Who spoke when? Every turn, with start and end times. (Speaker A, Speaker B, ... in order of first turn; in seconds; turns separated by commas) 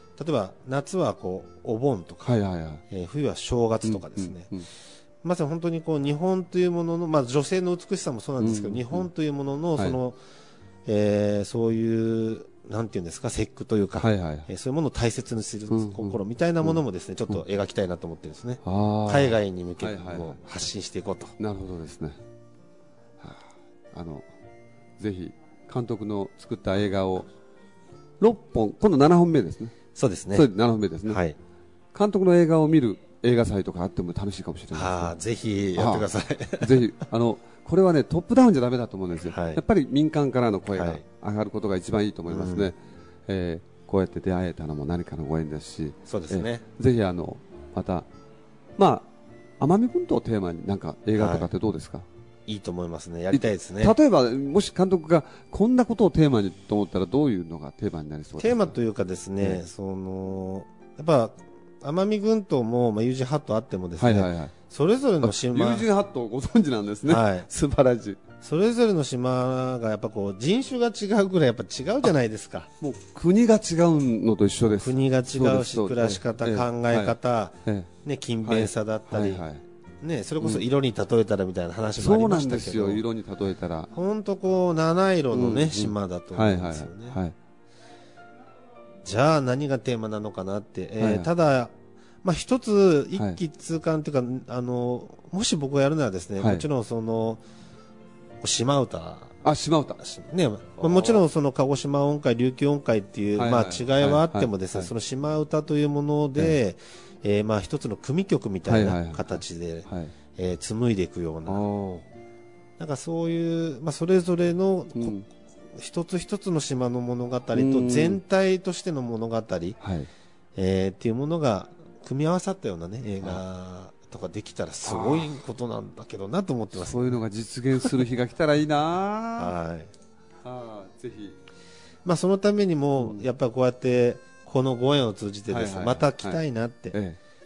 Speaker A: 0.2-2.4, Speaker B: 2.2-2.8, Speaker A: 2.9-4.5, Speaker B: 3.8-4.7, Speaker A: 5.2-10.2, Speaker B: 8.4-9.1, Speaker A: 10.8-21.3, Speaker B: 14.0-14.5, Speaker B: 15.7-16.8, Speaker B: 18.6-20.4, Speaker B: 21.4-22.2, Speaker B: 23.2-24.2, Speaker B: 25.0-27.3, Speaker B: 28.2-31.2, Speaker A: 29.9-30.5, Speaker A: 31.1-31.4, Speaker B: 31.9-35.1, Speaker A: 34.7-36.8, Speaker B: 35.7-48.0, Speaker A: 39.3-39.6, Speaker A: 40.7-41.0, Speaker A: 42.3-42.7, Speaker A: 46.1-46.6, Speaker B: 48.8-49.1, Speaker B: 49.6-52.0, Speaker A: 51.2-51.5, Speaker A: 52.5-53.9, Speaker B: 53.3-58.7, Speaker A: 58.4-65.9, Speaker B: 64.0-64.5, Speaker B: 65.2-68.2, Speaker A: 67.1-67.5, Speaker A: 68.4-72.7, Speaker B: 72.8-77.1, Speaker A: 74.7-79.5, Speaker B: 78.4-79.6, Speaker A: 80.0-83.0, Speaker B: 82.0-83.9, Speaker A: 83.9-87.2, Speaker B: 85.3-87.3, Speaker A: 89.0-97.4, Speaker B: 91.0-91.3, Speaker B: 96.4-96.6, Speaker A: 98.4-99.4, Speaker B: 99.4-100.0, Speaker A: 100.0-111.6, Speaker B: 100.8-101.2, Speaker B: 103.3-104.9, Speaker B: 108.7-110.1, Speaker B: 111.5-112.0, Speaker A: 112.8-115.1, Speaker B: 114.9-115.2, Speaker A: 115.7-119.8, Speaker B: 117.5-118.2, Speaker B: 119.8-120.1, Speaker A: 120.5-127.2, Speaker B: 124.8-125.3, Speaker B: 126.8-129.5, Speaker A: 129.4-129.9, Speaker B: 130.4-131.3, Speaker A: 132.0-136.9, Speaker B: 133.0-133.2, Speaker B: 135.5-136.4, Speaker B: 136.9-137.2